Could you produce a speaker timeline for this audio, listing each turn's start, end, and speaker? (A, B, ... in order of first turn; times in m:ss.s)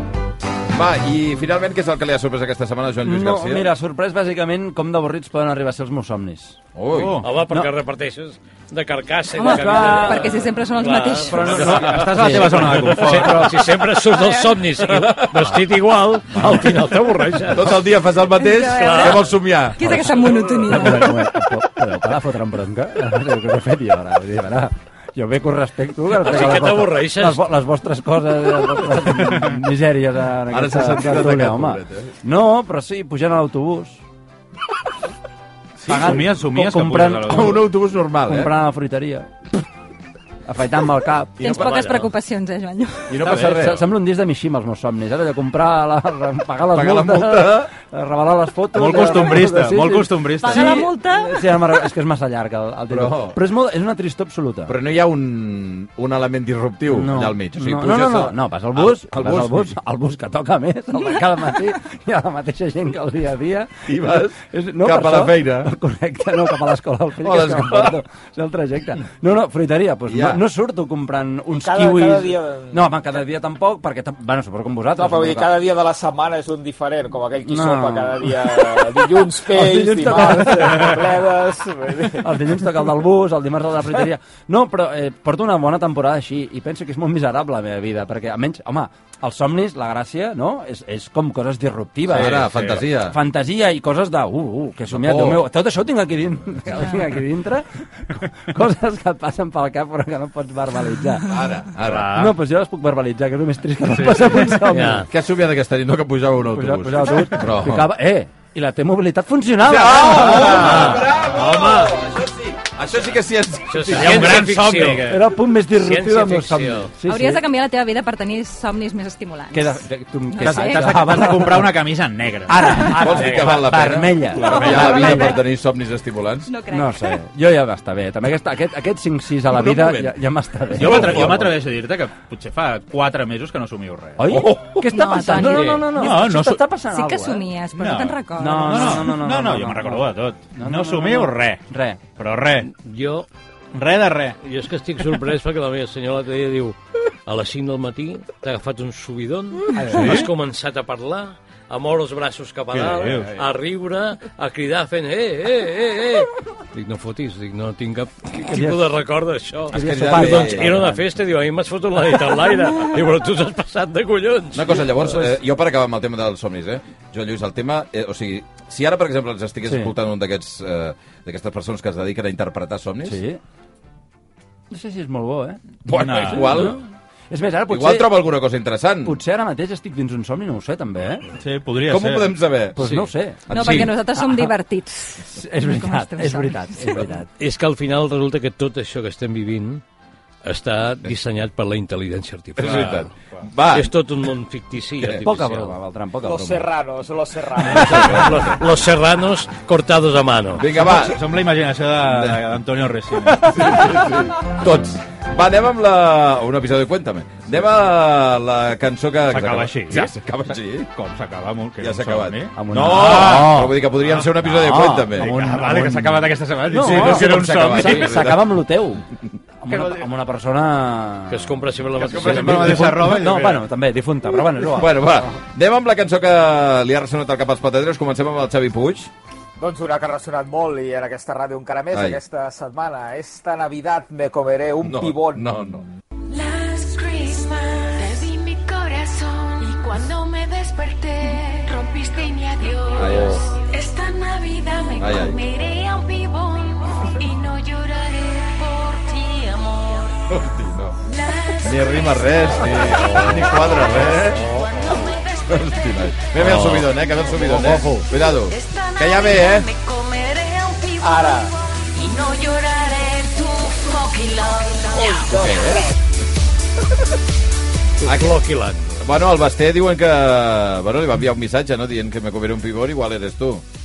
0:00.7-0:03.7 A
0:03.0-0:06.6 B
0:06.8-0:07.2 A
0:06.9-0:07.3 C
0:07.2-0:17.8 D
0:09.4-0:11.7 E
0:09.4-0:10.3 B
0:11.3-0:13.5 B
0:11.6-0:13.5 C
0:14.0-0:14.6 E
0:14.9-0:15.6 A
0:17.5-0:20.2 A
0:18.3-0:21.2 E
0:18.7-0:19.2 D
0:19.8-0:20.1 B
0:20.7-0:34.0 B
0:26.2-0:27.4 D
0:29.2-0:29.6 C
0:30.5-0:32.1 A
0:35.9-0:37.6 C
0:35.9-0:37.7 B
0:37.3-0:38.5 A
0:38.3-0:39.3 B
0:40.5-0:41.5 B
0:41.4-0:43.2 E
0:41.4-0:41.8 A
0:41.5-0:42.1 D
0:43.1-0:43.8 A
0:43.2-0:43.6 C
0:43.3-0:54.8 B
0:46.7-0:47.7 A
0:48.7-0:50.9 C
0:50.4-0:51.6 E
0:52.9-0:53.4 A
0:54.7-0:59.8 A
0:56.9-1:15.5 B
1:03.9-1:05.7 A
1:07.2-1:08.0 A
1:10.1-1:10.4 A
1:11.5-1:12.9 F
1:15.0-1:22.7 F
1:17.4-1:21.1 B
1:22.2-1:41.3 B
1:32.1-1:33.2 A
1:32.2-1:32.8 C
1:34.9-1:35.5 A
1:41.3-1:42.2 A
1:41.8-1:42.4 C
1:42.1-1:45.1 B
1:43.9-1:44.7 C
1:44.7-1:45.1 D
1:45.1-1:47.9 A
1:46.5-1:50.8 B
1:49.6-1:54.5 A
1:50.1-1:52.0 C
1:50.6-1:51.1 D
1:53.7-1:56.9 D
1:53.9-1:55.3 C
1:55.1-1:57.4 B
1:57.0-1:59.8 E
1:59.5-2:01.7 B
2:00.3-2:01.2 E
2:00.4-2:03.5 C
2:02.5-2:05.4 B
2:02.8-2:06.5 A
2:04.4-2:05.4 E
2:06.5-2:07.2 E
2:06.7-2:11.5 B
2:09.5-2:10.2 A
2:10.8-2:14.4 C
2:10.8-2:11.5 A
2:14.2-2:17.5 B
2:14.3-2:14.8 A
2:14.8-2:16.2 E
2:15.4-2:15.8 D
2:15.9-2:16.6 C
2:16.9-2:19.1 E
2:17.8-2:21.6 C
2:18.4-2:22.0 B
2:22.2-2:22.7 C
2:22.7-2:23.3 D
2:23.7-2:24.4 C
2:24.4-2:45.0 D
2:29.8-2:30.3 B
2:29.9-2:30.3 C
2:32.7-2:33.4 C
2:38.3-2:38.9 B
2:39.7-2:40.9 A
2:39.7-2:41.0 B
2:44.5-2:53.2 A
2:49.6-2:49.9 B
2:53.0-2:53.4 B
2:54.7-2:55.6 B
2:55.9-2:56.8 A
2:55.9-2:56.8 C
2:56.2-2:58.2 B
2:57.7-2:59.2 A
2:59.0-3:01.3 B
3:01.4-3:02.4 C
3:01.8-3:04.0 A
3:02.8-3:04.5 B
3:03.5-3:07.1 E
3:05.3-3:07.3 B
3:07.4-3:09.8 D
3:10.4-3:13.1 D
3:12.6-3:13.9 A
3:12.6-3:13.4 C
3:13.7-3:15.7 D
3:15.2-3:16.7 B
3:16.2-3:18.5 F
3:17.7-3:18.6 A
3:17.7-3:20.7 D
3:20.6-3:21.3 A
3:20.7-3:24.2 C
3:22.0-3:22.4 A
3:23.4-3:30.9 A
3:29.3-3:30.1 C
3:30.9-3:34.3 C
3:31.8-3:35.4 A
3:32.6-3:33.9 B
3:34.4-3:39.0 B
3:35.2-3:38.3 C
3:36.8-3:38.5 A
3:39.6-3:41.6 B
3:39.7-3:40.1 C
3:41.3-3:43.2 D
3:42.0-3:43.7 C
3:42.0-3:42.6 A
3:42.1-3:45.4 B
3:44.6-3:49.1 A
3:49.6-3:55.5 F
3:51.9-3:52.2 A
3:54.8-3:55.8 A
3:56.3-4:10.4 G
4:02.9-4:03.5 A
4:05.0-4:05.4 A
4:10.3-4:11.0 A
4:11.0-4:16.3 G
4:11.6-4:19.7 A
4:12.8-4:13.8 D
4:13.9-4:15.0 F
4:16.4-4:17.0 D
4:17.0-4:17.4 G
4:17.4-4:18.1 B
4:18.3-4:25.8 G
4:21.0-4:21.5 F
4:24.9-4:25.9 F
4:25.3-4:25.9 A
4:28.0-4:29.0 D
4:28.0-4:28.4 A
4:29.0-4:33.6 A